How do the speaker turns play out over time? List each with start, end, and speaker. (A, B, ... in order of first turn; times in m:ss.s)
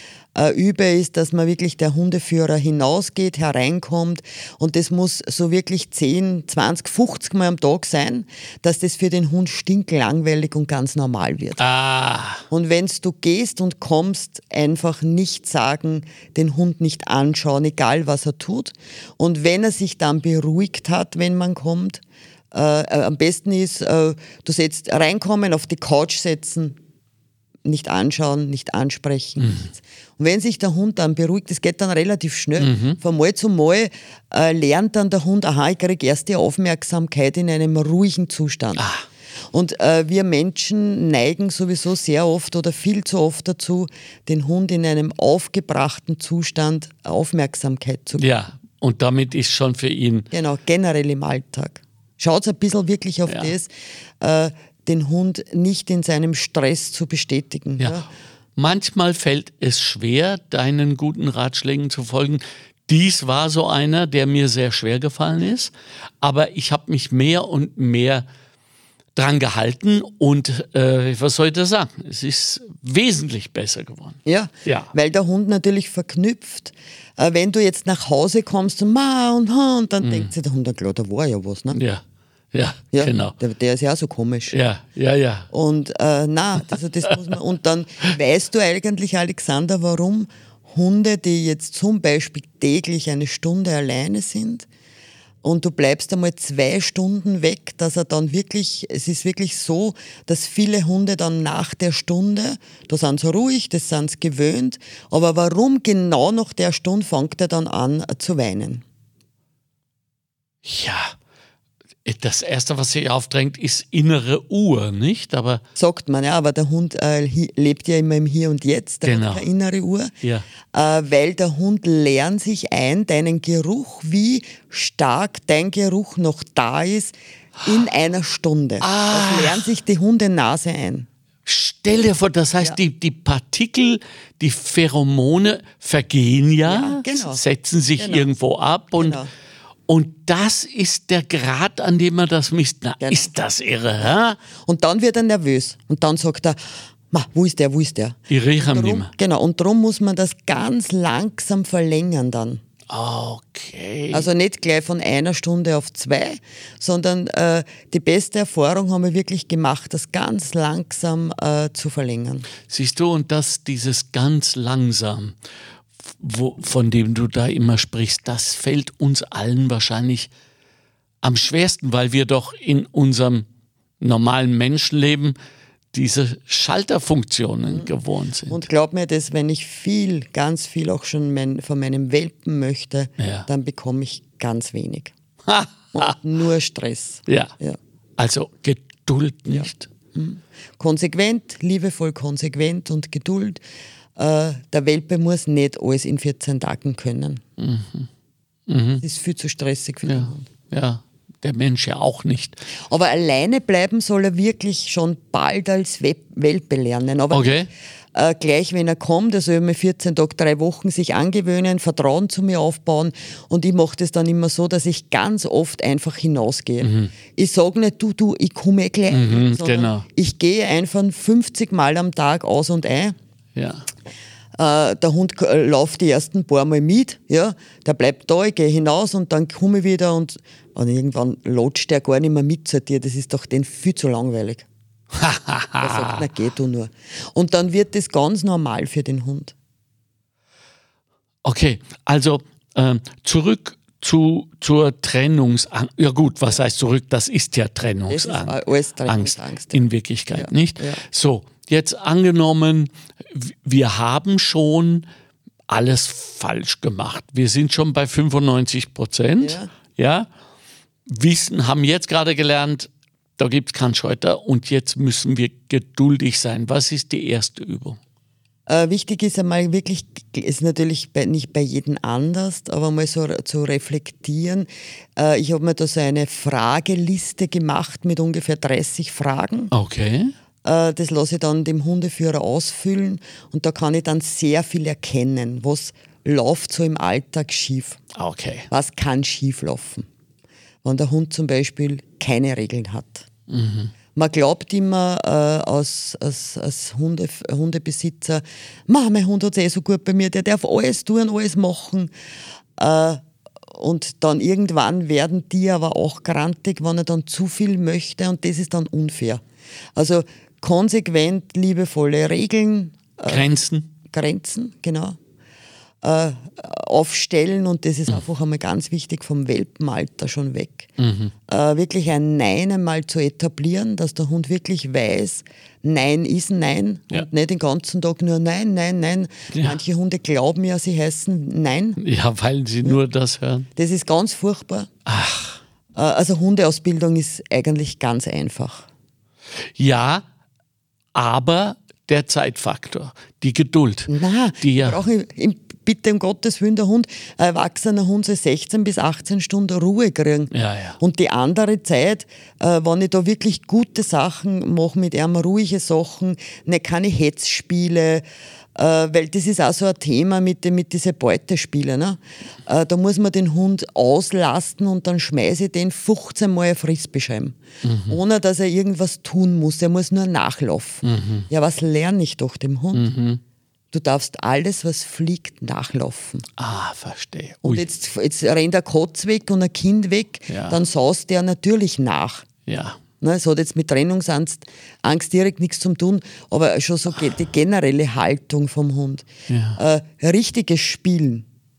0:00.4-0:11.6 A
0:11.6-0:12.4 B
0:12.5-0:26.8 A
0:27.6-0:38.8 A
0:29.4-0:29.7 B
0:32.6-0:33.0 B
0:38.8-0:39.0 B
0:39.5-0:48.3 A
0:48.2-0:50.3 B
0:50.3-0:58.1 A
0:53.3-0:53.5 B
0:58.6-1:08.2 B
1:09.2-1:14.9 B
1:14.3-1:21.8 A
1:20.0-1:20.3 B
1:21.7-1:22.0 B
1:22.5-1:23.4 B
1:22.9-1:24.6 A
1:24.5-1:25.5 B
1:25.5-1:34.7 A
1:35.4-1:48.8 A
1:50.6-1:51.2 B
1:52.0-1:55.6 B
1:55.8-2:00.1 A
1:59.0-1:59.5 B
2:00.7-2:11.1 A
2:08.8-2:09.7 B
2:11.5-2:19.2 B
2:16.7-2:17.4 A
2:18.0-2:18.3 A
2:19.0-2:19.3 A
2:19.9-2:24.4 B
2:23.0-2:23.3 A
2:24.6-2:26.6 A
2:27.1-2:32.6 A
2:28.3-2:29.1 B
2:32.9-2:34.3 B
2:34.1-2:42.5 A
2:42.7-2:45.4 B
2:46.2-2:50.3 B
2:51.2-2:53.5 B
2:54.0-2:55.4 B
2:55.9-2:58.6 B
2:58.5-3:05.1 A
3:03.2-3:03.5 B
3:05.5-3:06.1 B
3:05.9-3:07.8 A
3:07.3-3:07.5 B
3:08.2-3:09.9 B
3:09.5-3:13.6 A
3:14.2-3:17.4 A
3:17.6-3:18.1 B
3:18.7-3:19.0 B
3:19.0-3:20.5 A
3:20.1-3:22.6 B
3:22.9-3:27.6 A
3:27.3-3:27.7 B
3:28.1-3:43.2 A
3:36.8-3:37.1 B
3:39.1-3:40.1 B
3:43.6-3:43.8 B
3:44.6-3:54.7 A
3:55.2-3:56.2 B
3:55.8-3:59.5 A
4:01.4-4:08.6 B
4:08.1-4:11.0 A
4:09.1-4:15.1 B
4:15.7-4:20.3 B
4:19.4-4:19.7 A
4:21.1-4:28.0 B
4:28.7-4:39.7 A
4:39.7-4:40.3 B
4:40.6-4:48.0 A
4:48.2-4:48.7 B
4:48.7-4:50.0 A
4:50.8-4:53.3 A
4:53.5-4:53.9 B
4:54.2-5:02.1 A
5:02.8-5:03.2 A
5:03.7-5:09.4 A
5:10.0-5:13.5 A
5:13.3-5:13.9 B
5:14.1-5:15.2 A
5:16.0-5:20.9 A
5:21.0-5:21.3 B
5:21.5-5:32.0 A
5:29.5-5:29.8 B
5:32.0-5:33.7 B
5:33.8-5:34.9 A
5:35.1-5:35.6 B
5:36.0-5:38.9 A
5:39.8-5:40.2 B
5:41.1-5:45.0 B
5:44.1-5:58.2 A
5:50.5-5:51.0 B
5:58.8-6:07.6 A
6:07.8-6:08.2 B
6:08.1-6:13.1 A
6:11.0-6:11.5 B
6:12.9-6:13.4 B
6:13.9-6:16.4 A
6:16.6-6:17.8 B
6:17.6-6:22.5 A
6:20.5-6:20.8 B
6:22.7-6:23.0 B
6:23.2-6:31.4 A
6:29.5-6:29.8 B